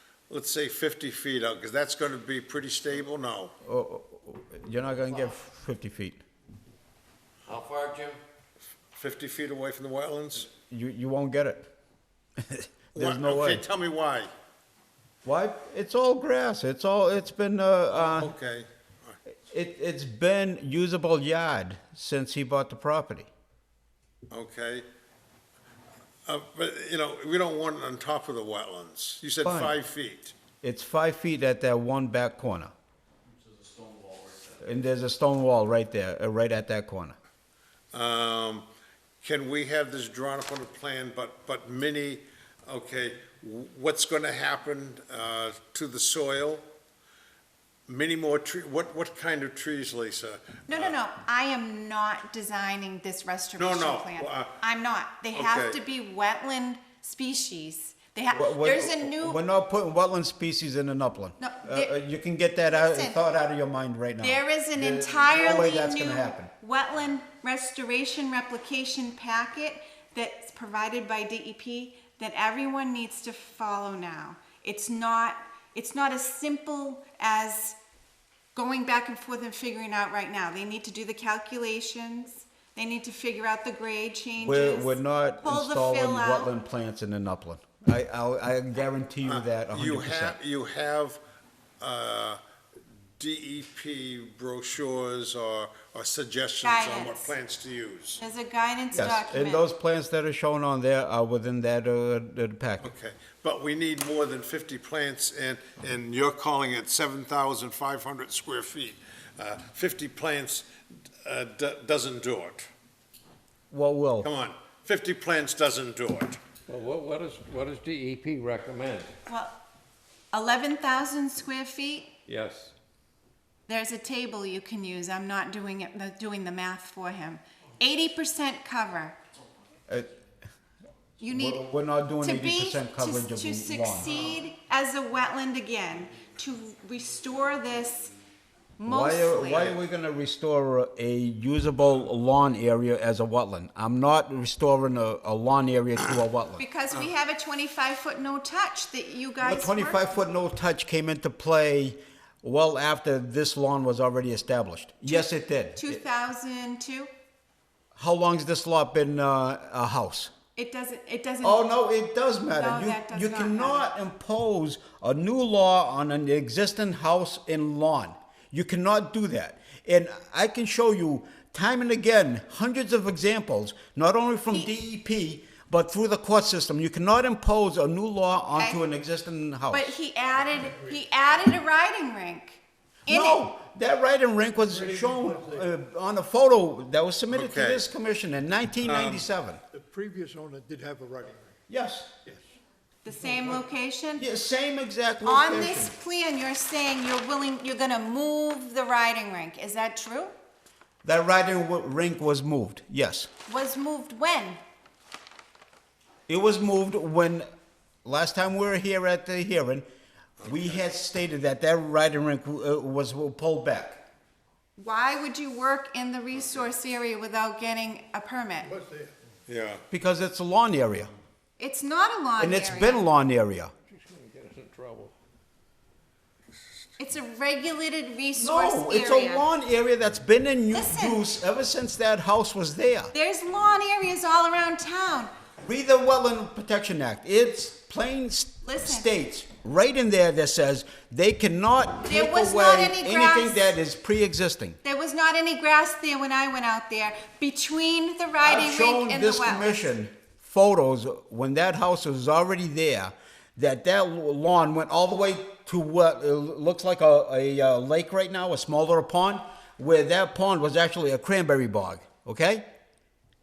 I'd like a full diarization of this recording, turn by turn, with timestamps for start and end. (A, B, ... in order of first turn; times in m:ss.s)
0:00.3-0:03.5 A
0:03.6-0:06.2 B
0:07.5-0:08.2 C
0:08.9-0:10.5 A
0:10.7-0:11.7 B
0:12.4-0:13.6 B
0:12.9-0:14.3 A
0:15.2-0:18.3 B
0:17.9-0:19.2 A
0:19.5-0:23.3 B
0:24.3-0:24.8 A
0:26.2-0:30.3 A
0:29.4-0:29.7 B
0:30.6-0:32.7 B
0:33.6-0:34.5 C
0:34.6-0:37.2 B
0:37.9-0:38.6 A
0:39.2-0:46.6 A
0:47.9-0:51.0 A
0:50.7-0:59.4 D
0:53.6-0:54.6 A
0:55.3-0:55.8 A
0:58.3-1:06.5 B
1:01.4-1:02.0 D
1:02.6-1:03.2 D
1:04.2-1:17.8 D
1:18.5-1:26.5 D
1:24.4-1:30.4 B
1:29.2-1:31.2 A
1:31.8-1:32.4 A
1:33.2-1:38.2 A
1:36.6-1:37.3 D
1:38.2-1:39.7 D
1:38.9-1:42.9 B
1:42.8-1:50.7 A
1:51.2-1:52.7 A
1:53.7-1:54.3 B
1:54.2-1:56.4 A
1:56.7-1:59.1 C
1:59.3-1:59.6 D
2:00.3-2:02.1 D
2:02.3-2:02.7 C
2:03.7-2:09.2 D
2:11.2-2:11.6 D
2:11.3-2:14.3 B
2:12.2-2:18.1 D
2:18.8-2:19.8 D
2:18.8-2:26.6 B
2:26.6-2:30.0 D
2:29.4-2:36.0 B
2:35.1-2:37.1 D
2:37.9-2:40.3 B
2:40.6-2:41.8 D
2:41.4-2:59.9 B
2:42.5-2:43.9 D
2:58.6-2:58.8 D
2:59.7-3:03.4 D
3:00.6-3:01.0 E
3:03.1-3:09.6 B
3:04.7-3:05.7 E
3:07.3-3:07.8 A
3:08.8-3:09.3 A
3:09.7-3:11.5 E
3:11.7-3:12.2 B
3:13.0-3:14.2 D
3:14.2-3:15.9 B
3:15.2-3:20.3 D
3:21.0-3:23.3 B
3:23.5-3:24.6 D
3:26.3-3:27.5 B
3:28.0-3:29.8 B
3:30.4-3:30.8 A
3:30.4-3:34.0 B
3:34.8-3:38.7 D
3:38.6-3:39.1 E
3:39.5-3:39.8 A
3:39.9-3:41.1 B
3:41.6-3:43.0 D
3:42.4-3:43.7 B
3:43.9-3:45.1 C
3:47.0-3:49.5 D
3:48.4-3:53.1 B
3:50.7-3:51.2 D
3:53.1-3:55.3 D
3:55.6-4:04.8 B
3:58.6-3:59.1 D
4:02.0-4:03.8 D
4:04.8-4:09.9 D
4:08.4-4:22.7 B